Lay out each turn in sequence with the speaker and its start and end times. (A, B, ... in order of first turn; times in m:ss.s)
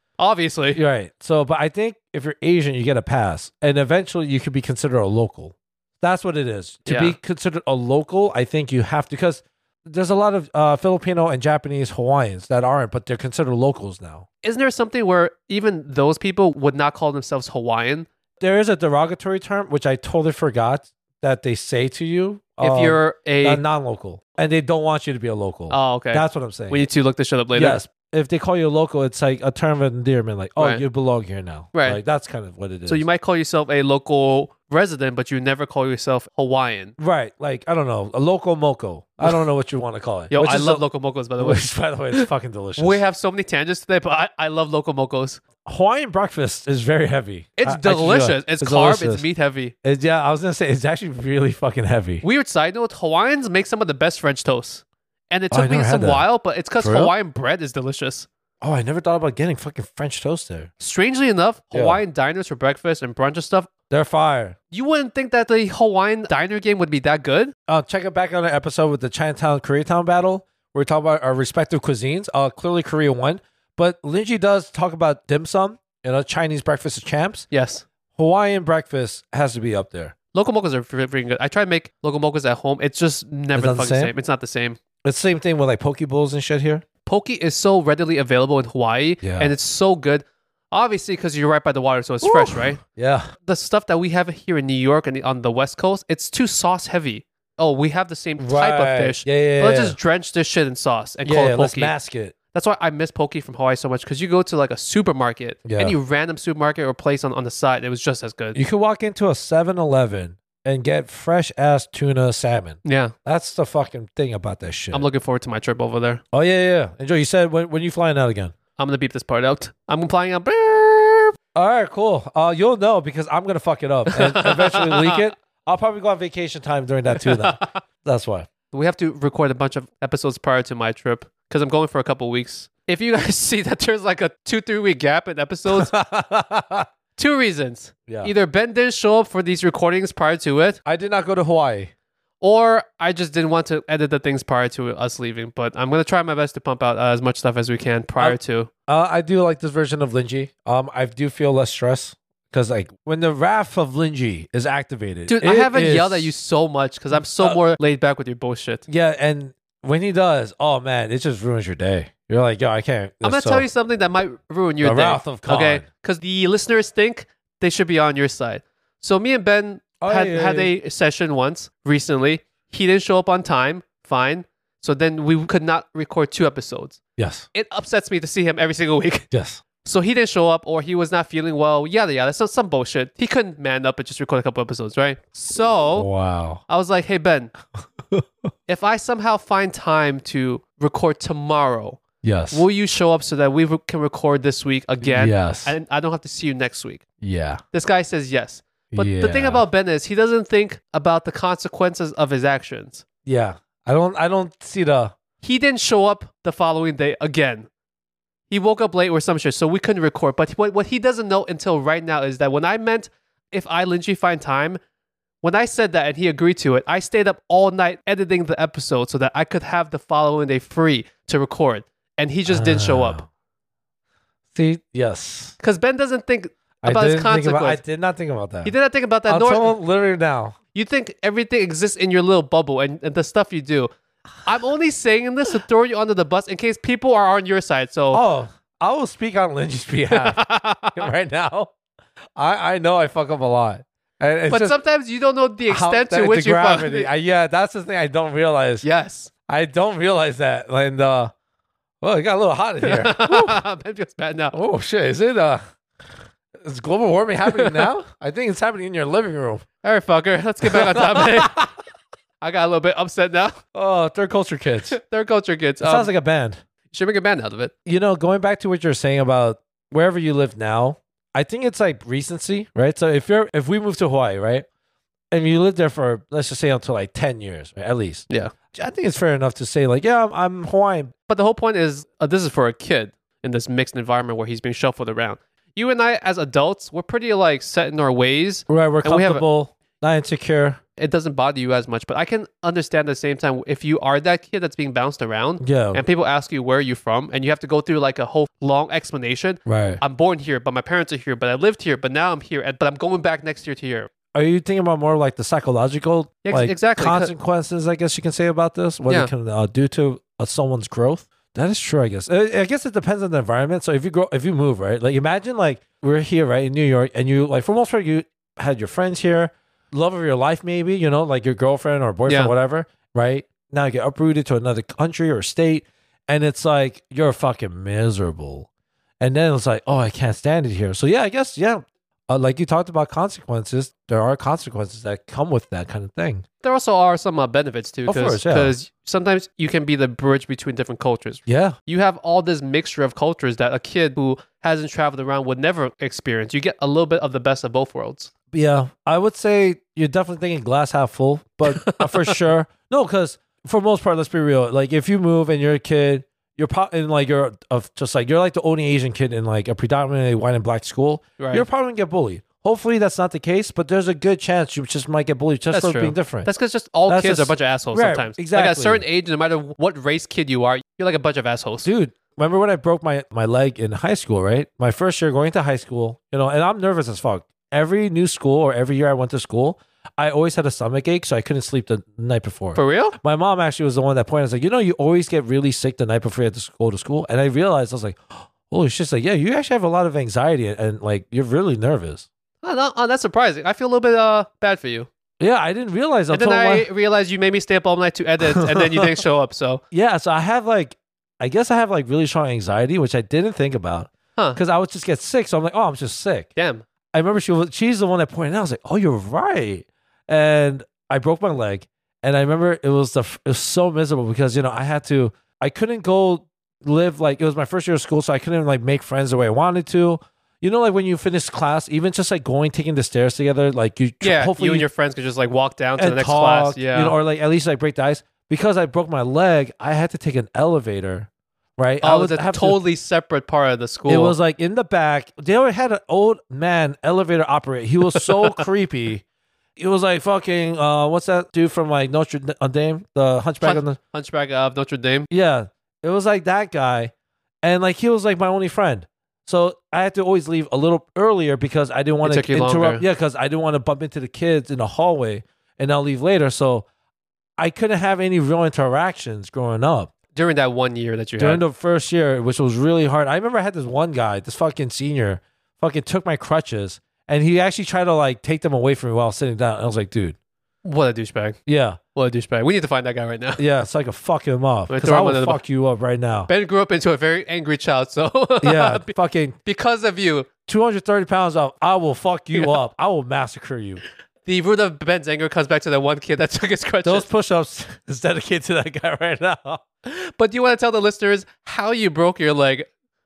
0:00.2-0:00.8 A
0:00.7-0:14.2 B
0:06.8-0:07.2 A
0:14.4-0:18.1 A
0:18.4-0:26.9 B
0:22.6-0:23.6 A
0:25.7-0:27.8 A
0:27.5-0:33.0 B
0:30.6-0:30.8 A
0:31.7-0:32.0 A
0:32.9-0:36.9 A
0:37.0-0:40.8 B
0:40.3-0:41.6 A
0:41.4-0:43.0 B
0:42.1-0:45.4 A
0:45.6-0:49.2 B
0:47.6-0:49.7 A
0:49.8-0:52.2 B
0:52.2-0:58.3 A
0:55.5-0:56.2 B
0:56.8-0:57.1 B
0:58.6-1:00.7 B
1:00.8-1:03.7 A
1:01.7-1:02.0 B
1:03.9-1:04.6 B
1:04.7-1:07.5 A
1:07.7-1:17.5 B
1:17.5-1:17.8 A
1:18.1-1:20.1 B
1:20.3-1:24.8 A
1:23.5-1:24.1 B
1:25.0-1:26.8 B
1:27.0-1:32.8 A
1:29.2-1:29.5 B
1:32.2-1:33.3 B
1:33.4-1:41.9 A
1:38.4-1:40.0 B
1:41.2-1:42.3 B
1:42.5-1:48.6 A
1:45.6-1:46.0 B
1:48.5-1:55.0 B
1:52.8-1:53.1 A
1:54.9-1:56.2 A
1:56.3-1:58.5 B
1:58.8-2:01.4 A
2:01.5-2:08.5 B
2:04.1-2:05.2 A
2:07.1-2:07.8 A
2:08.7-2:15.9 A
2:15.7-2:16.9 B
2:17.2-2:20.8 A
2:18.1-2:18.3 B
2:20.8-2:21.9 B
2:22.4-2:28.7 A
2:28.2-2:36.3 B
2:35.3-2:38.8 A
2:37.1-2:37.6 B
2:38.9-2:43.6 B
2:43.2-2:57.0 A
2:44.8-2:45.8 B
2:50.0-2:50.7 B
2:57.2-2:57.4 B
2:57.5-2:59.3 A
2:59.3-2:59.6 B
2:59.8-3:06.1 A
3:05.9-3:06.6 B
3:06.7-3:07.5 A
3:08.7-3:17.0 A
3:12.2-3:12.6 B
3:15.0-3:15.7 B
3:17.2-3:17.6 B
3:17.7-3:23.0 A
3:18.9-3:19.6 B
3:23.2-3:25.2 B
3:25.4-3:27.7 A
3:28.5-3:34.8 A
3:35.4-3:43.2 A
3:42.5-3:43.3 B
3:44.5-3:45.6 B
3:45.6-3:47.8 A
3:46.8-3:48.7 B
3:48.6-3:49.7 A
3:49.3-3:50.6 B
3:50.7-3:53.9 A
3:54.4-3:58.2 A
3:58.1-4:01.7 B
4:00.1-4:01.1 A
4:02.4-4:04.8 B
4:04.5-4:07.1 A
4:05.7-4:08.8 B
4:08.8-4:09.3 A
4:09.5-4:11.3 B
4:12.0-4:13.6 B
4:12.8-4:14.5 A
4:14.5-4:15.6 B
4:16.6-4:19.6 B
4:17.5-4:17.9 A
4:19.8-4:21.6 A
4:20.6-4:21.7 B
4:22.4-4:23.6 A
4:23.7-4:25.0 B
4:24.9-4:26.1 A
4:25.8-4:26.6 B
4:26.9-4:27.7 A
4:27.8-4:34.6 B
4:35.3-4:41.1 B
4:41.3-4:49.4 A
4:48.7-4:50.8 B
4:51.0-5:04.1 A
4:55.6-4:56.0 B
4:59.6-5:00.0 B
5:04.3-5:28.7 B
5:06.4-5:07.3 A
5:22.3-5:22.5 A
5:29.2-5:36.4 B
5:36.6-5:48.3 A
5:38.1-5:38.8 B
5:41.4-5:41.8 B
5:48.5-6:06.5 B
5:51.6-5:52.4 A
6:01.4-6:01.6 A
6:05.7-6:11.9 A
6:07.1-6:09.0 B
6:11.8-6:32.3 B
6:22.7-6:23.2 A
6:32.6-6:35.1 A
6:35.4-6:36.9 B
6:36.3-6:39.8 A
6:38.4-6:39.2 B
6:39.9-6:46.5 B
6:46.6-6:46.8 A
6:47.1-7:04.9 B
7:04.2-7:07.1 A
7:06.0-7:12.8 B
7:12.0-7:14.3 A
7:14.1-7:19.2 B
7:18.1-7:18.6 A
7:19.8-7:24.0 B
7:23.6-7:25.3 A
7:25.3-7:27.1 B
7:27.6-7:36.9 B
7:32.2-7:33.0 A
7:37.6-7:40.1 B
7:40.3-7:41.6 A
7:41.4-7:50.4 B
7:50.8-7:51.6 A
7:51.7-7:52.0 B
7:52.1-7:53.6 A
7:53.6-7:56.5 B
7:54.9-7:55.6 A
7:56.5-7:59.1 A
7:58.6-7:59.6 B
7:59.6-8:00.5 A
8:00.7-8:04.0 B
8:04.4-8:07.3 A
8:07.0-8:09.8 B
8:10.0-8:12.9 A